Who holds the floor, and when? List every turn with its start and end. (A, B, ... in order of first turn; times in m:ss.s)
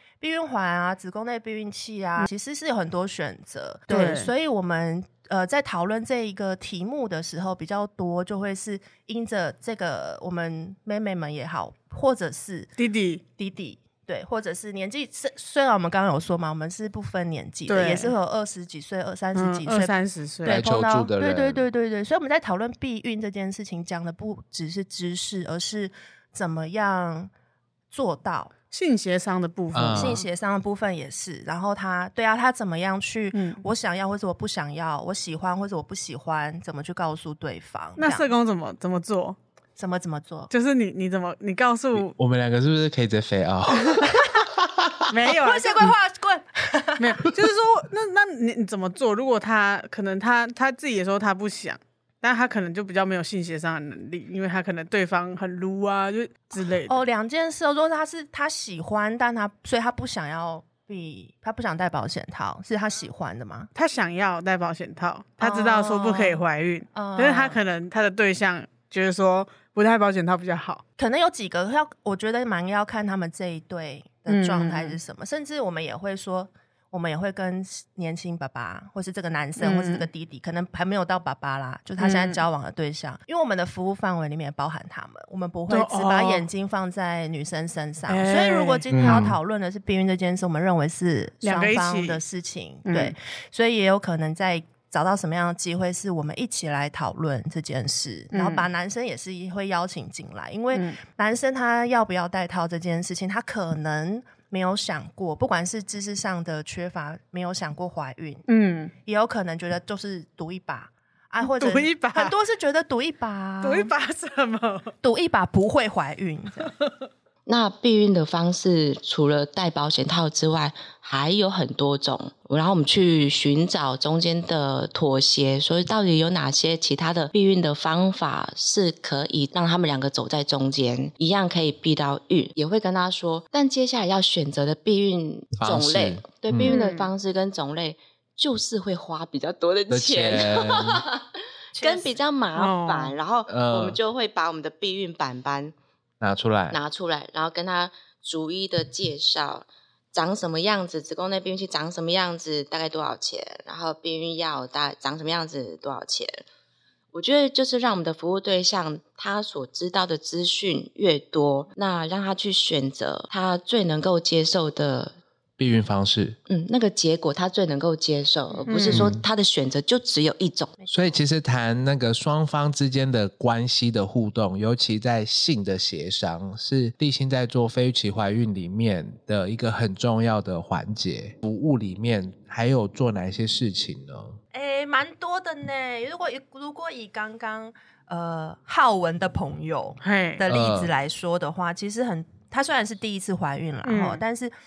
0:00.2-0:12.7 A
0:03.9-0:04.3 B
0:12.8-0:13.2 B
0:13.4-0:27.3 A
0:17.7-0:18.2 B
0:19.4-0:20.6 B
0:20.5-0:21.6 C
0:27.9-0:28.5 A
0:28.7-0:30.3 B
0:29.7-0:30.2 C
0:29.9-0:38.3 A
0:33.3-0:33.6 B
0:38.0-0:39.4 B
0:39.8-0:40.5 A
0:40.5-0:42.1 B
0:42.0-0:45.1 C
0:45.1-0:45.9 B
0:45.4-0:47.2 A
0:47.0-0:57.0 B
0:56.9-1:03.7 A
1:03.8-1:10.8 B
1:05.4-1:06.4 A
1:06.9-1:07.6 A
1:11.0-1:48.4 A
1:14.3-1:15.0 B
1:19.6-1:20.1 B
1:22.0-1:22.4 B
1:25.7-1:26.5 B
1:28.1-1:29.2 B
1:28.9-1:29.4 C
1:31.4-1:32.2 B
1:32.8-1:33.2 B
1:38.3-1:38.7 B
1:40.7-1:41.0 B
1:48.5-1:48.9 B
1:49.1-1:53.9 A
1:51.4-1:52.4 B
1:53.6-1:54.9 B
1:55.0-1:56.7 A
1:56.6-1:56.9 B
1:57.5-2:21.3 D
2:15.6-2:16.8 C
2:16.6-2:17.1 B
2:19.9-2:21.0 C
2:21.8-2:22.1 A
2:21.8-2:25.7 D
2:22.6-2:23.2 B
2:23.5-2:24.0 C
2:26.2-2:26.8 C
2:26.7-2:36.4 D
2:37.1-2:45.2 D
2:45.6-2:46.4 C
2:46.5-2:50.8 D
2:48.5-2:48.8 A
2:48.7-2:49.1 B
2:48.9-2:49.2 C
2:50.8-2:51.2 A
2:50.9-3:04.4 C
3:04.5-3:14.5 A
3:10.0-3:10.4 B
3:10.5-3:10.9 C
3:13.8-3:14.2 B